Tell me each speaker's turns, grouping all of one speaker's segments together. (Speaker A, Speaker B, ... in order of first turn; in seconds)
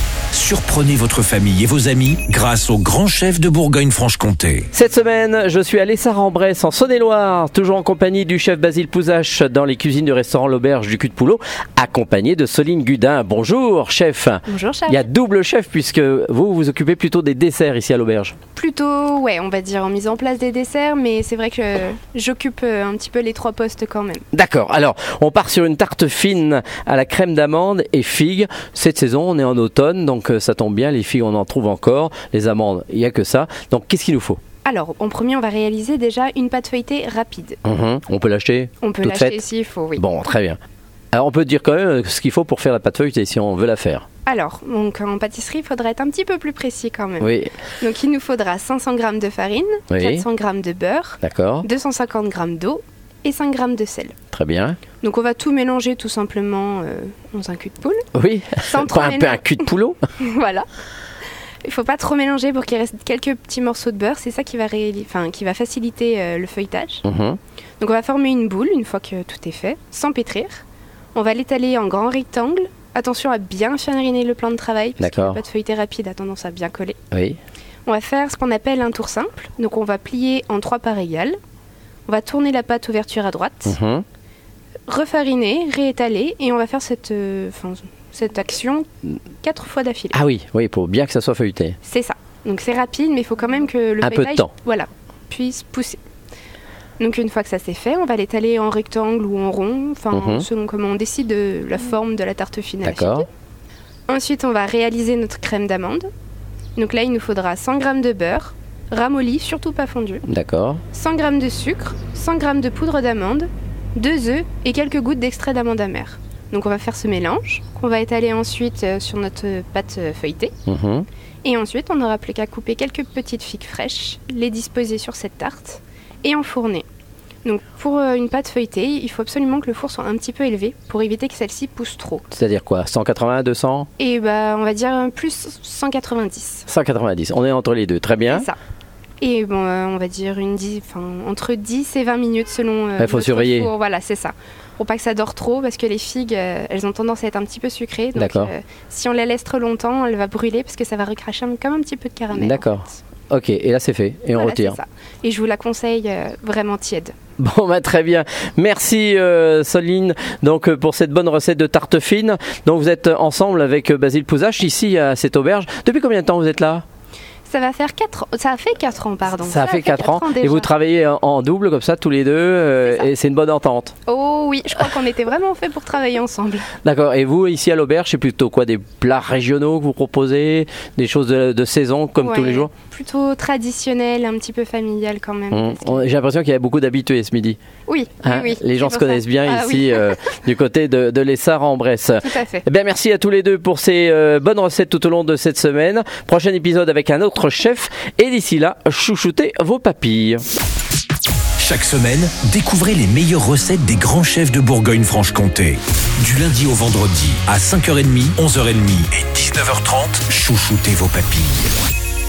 Speaker A: 0.3-4.7, 201.6-211.7
Speaker B: 4.7-18.4, 24.3-34.4, 37.6-39.4, 39.9-40.6, 41.1-44.0, 47.2-47.5, 49.9-50.2, 51.2-51.7, 54.3-54.8, 58.1-60.0, 67.0-67.4, 75.0-75.4, 77.1-77.4, 83.7-84.0, 90.1-91.8, 94.0-94.5, 100.1-100.5, 102.8-103.2, 110.2-110.8, 120.7-121.1, 132.3-133.9, 136.7-138.5, 143.0-143.7, 148.2-148.5, 152.3-154.8, 157.4-166.8, 169.3-173.9, 176.8-182.7, 185.5-187.6, 188.2-200.4
Speaker C: 14.5-15.1, 18.5-24.2, 34.6-37.6, 38.8-40.0, 44.2-54.1, 55.0-58.0, 58.6-59.7, 60.2-60.6, 61.6-67.0, 67.8-70.6, 71.1-77.0, 77.8-81.3, 82.1-83.8, 84.9-88.8, 89.4-90.2, 91.8-96.0, 97.0-103.3, 104.1-106.1, 106.8-110.2, 110.9-120.5, 121.4-126.8, 127.4-132.2, 134.0-136.7, 138.3-138.6, 139.2-153.0, 154.3-157.1, 167.4-170.7, 174.1-176.7, 182.2-186.0, 187.9-190.2, 192.2-192.6